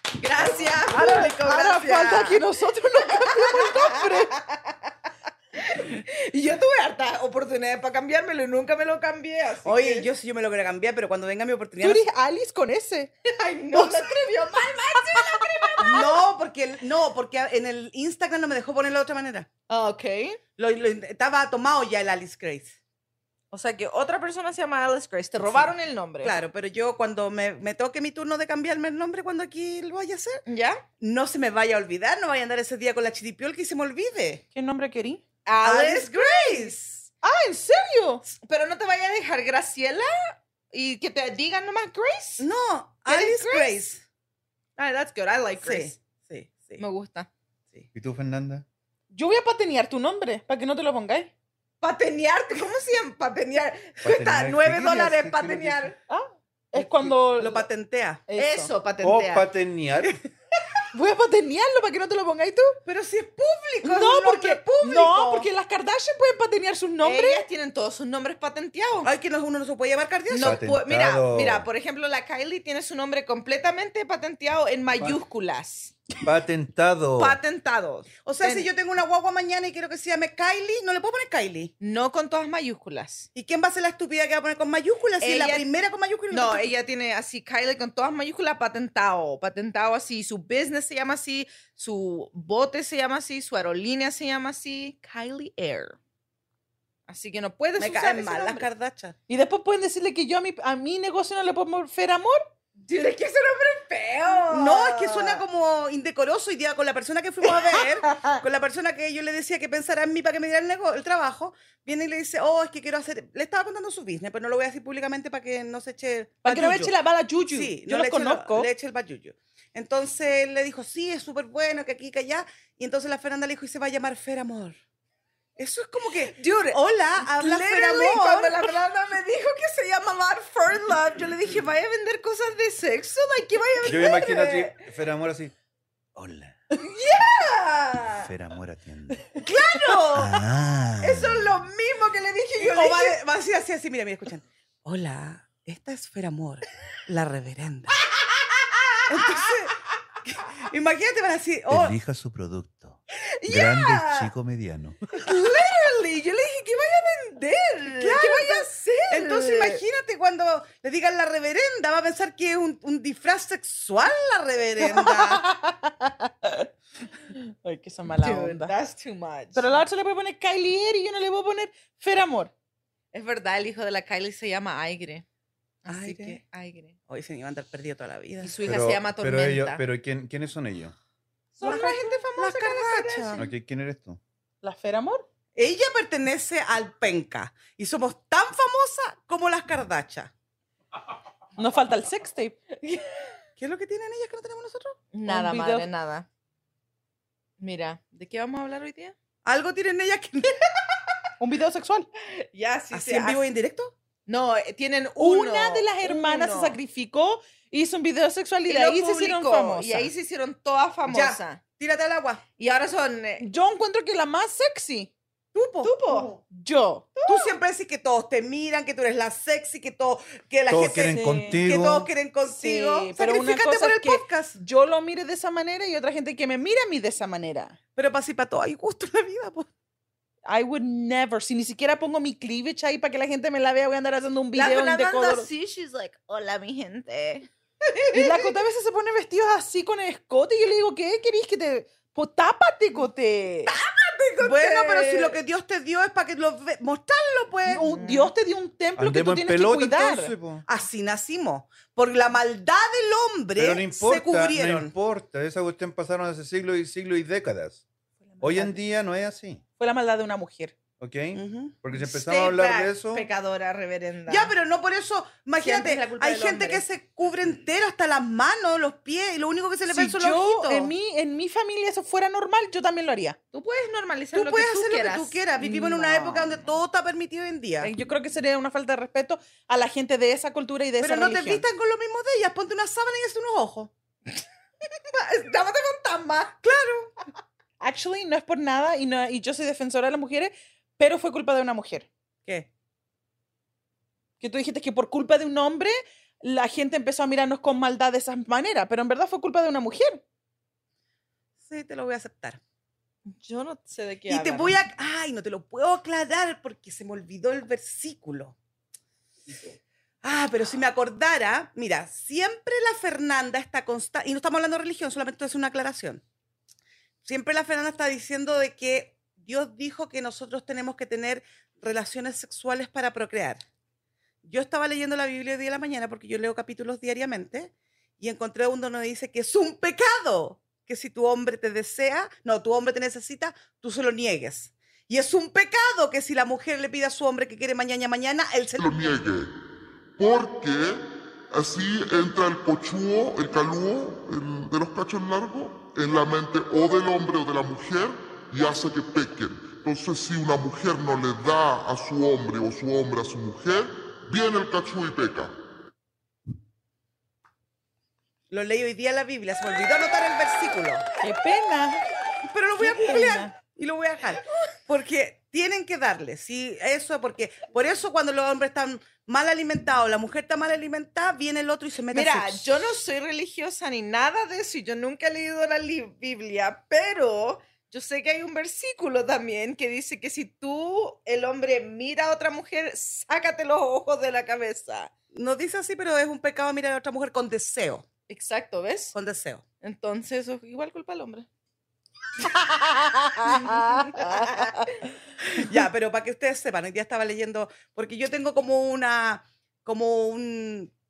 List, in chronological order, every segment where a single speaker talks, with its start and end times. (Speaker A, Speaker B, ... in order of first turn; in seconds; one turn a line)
Speaker A: 0.2-2.4
Speaker B: 0.4-0.7
Speaker C: 0.9-4.4
Speaker A: 3.1-4.9
Speaker A: 5.5-10.1
Speaker B: 9.6-12.0
Speaker C: 11.8-13.1
Speaker A: 13.2-16.1
Speaker C: 13.7-14.3
Speaker C: 15.1-16.0
Speaker B: 15.8-19.5
Speaker A: 19.7-20.4
Speaker B: 20.6-22.8
Speaker A: 23.5-26.4
Speaker B: 26.2-30.4
Speaker A: 30.4-30.8
Speaker B: 31.0-34.4
Speaker C: 34.5-35.2
Speaker A: 35.4-36.8
Speaker B: 35.6-36.9
Speaker C: 37.2-38.2
Speaker A: 38.2-42.5
Speaker B: 42.4-44.0
Speaker A: 43.0-43.8
Speaker A: 44.8-46.0
Speaker B: 45.6-46.8
Speaker A: 46.8-47.3
Speaker D: 47.9-48.6
Speaker C: 49.1-51.3
Speaker A: 51.8-56.0
Speaker D: 54.0-55.9
Speaker C: 56.1-57.6
Speaker B: 57.4-58.2
Speaker C: 58.3-58.7
Speaker A: 58.4-59.5
Speaker D: 59.0-60.2
Speaker C: 60.9-62.8
Speaker B: 62.9-65.1
Speaker C: 63.8-67.4
Speaker A: 64.6-65.5
Speaker A: 67.0-69.1
Speaker B: 69.0-70.6
Speaker A: 70.3-76.0
Speaker D: 70.4-71.7
Speaker D: 76.2-77.4
Speaker A: 77.2-78.7
Speaker B: 78.2-81.7
Speaker A: 81.8-83.3
Speaker B: 83.3-86.7
Speaker A: 85.2-85.6
Speaker A: 86.3-96.0
Speaker A: 97.1-98.7
Speaker B: 97.8-99.1
Speaker C: 99.3-102.4
Speaker A: 102.8-105.4
Speaker B: 104.5-116.9
Speaker C: 107.7-108.4
Speaker C: 116.4-118.7
Speaker B: 117.5-124.8
Speaker B: 125.6-128.7
Speaker A: 126.3-134.8
Speaker D: 133.8-135.5
Speaker D: 136.1-136.6
Speaker A: 136.8-138.3
Speaker D: 138.2-139.3
Speaker A: 139.3-140.5
Speaker D: 140.1-141.5
Speaker A: 141.0-143.2
Speaker B: 142.6-148.0
Speaker B: 149.1-152.0
Speaker D: 151.7-155.0
Speaker A: 153.3-154.3
Speaker A: 155.2-159.8
Speaker B: 157.9-165.4
Speaker C: 164.8-166.7
Speaker C: 167.3-168.7
Speaker A: 168.2-169.8
Speaker C: 169.5-172.5
Speaker A: 173.1-175.2
Speaker A: 175.8-176.9
Speaker B: 175.9-176.4
Speaker B: 177.1-178.5
Speaker A: 178.4-179.8
Speaker D: 178.6-180.9
Speaker C: 181.6-182.3
Speaker A: 181.6-183.4
Speaker B: 182.4-183.4
Speaker D: 183.3-184.2
Speaker C: 184.6-185.2
Speaker B: 185.6-190.3
Speaker C: 191.6-192.6
Speaker A: 192.8-193.3
Speaker B: 193.6-195.0
Speaker A: 195.1-196.3
Speaker C: 195.2-195.9
Speaker A: 197.6-199.1
Speaker B: 199.4-200.6
Speaker C: 201.4-202.1
Speaker A: 202.2-203.4
Speaker B: 202.9-203.9
Speaker A: 204.3-206.8
Speaker C: 205.2-210.1
Speaker A: 208.7-211.6
Speaker B: 211.1-212.4
Speaker A: 212.6-213.4
Speaker C: 213.4-215.1
Speaker B: 215.5-216.3
Speaker A: 215.8-216.3
Speaker C: 216.4-217.3
Speaker B: 217.2-224.6
Speaker D: 220.7-222.1
Speaker C: 221.0-221.6
Speaker C: 222.5-227.8
Speaker B: 227.9-229.7
Speaker C: 230.4-235.5
Speaker A: 234.5-237.5
Speaker C: 238.1-243.7
Speaker A: 243.7-245.4
Speaker B: 244.4-247.8
Speaker C: 247.7-250.3
Speaker A: 247.8-248.3
Speaker D: 249.0-250.6
Speaker B: 250.7-254.9
Speaker D: 253.6-257.8
Speaker C: 258.2-258.8
Speaker D: 258.4-259.6
Speaker C: 259.8-260.7
Speaker D: 261.0-263.2
Speaker B: 261.3-261.7
Speaker A: 261.9-264.5
Speaker B: 264.3-270.9
Speaker A: 265.6-266.8
Speaker C: 269.9-273.4
Speaker A: 273.5-275.7
Speaker B: 274.3-277.9
Speaker C: 275.6-276.5
Speaker C: 277.8-281.6
Speaker B: 281.0-283.9
Speaker A: 285.1-286.6
Speaker B: 286.6-287.1
Speaker C: 287.8-292.1
Speaker C: 294.4-300.2
Speaker B: 301.6-302.6
Speaker A: 303.3-304.7
Speaker B: 304.3-308.5
Speaker B: 310.2-316.2
Speaker B: 317.2-323.6
Speaker B: 324.4-339.2
Speaker E: 338.8-339.5
Speaker E: 340.2-355.5
Speaker B: 358.5-361.0
Speaker C: 361.2-362.0
Speaker B: 362.4-372.7
Speaker C: 362.8-363.5
Speaker A: 372.1-385.1
Speaker B: 385.3-388.1
Speaker A: 388.3-389.1
Speaker B: 389.1-389.6
Speaker A: 389.8-391.5
Speaker A: 393.4-394.9
Speaker B: 395.5-400.9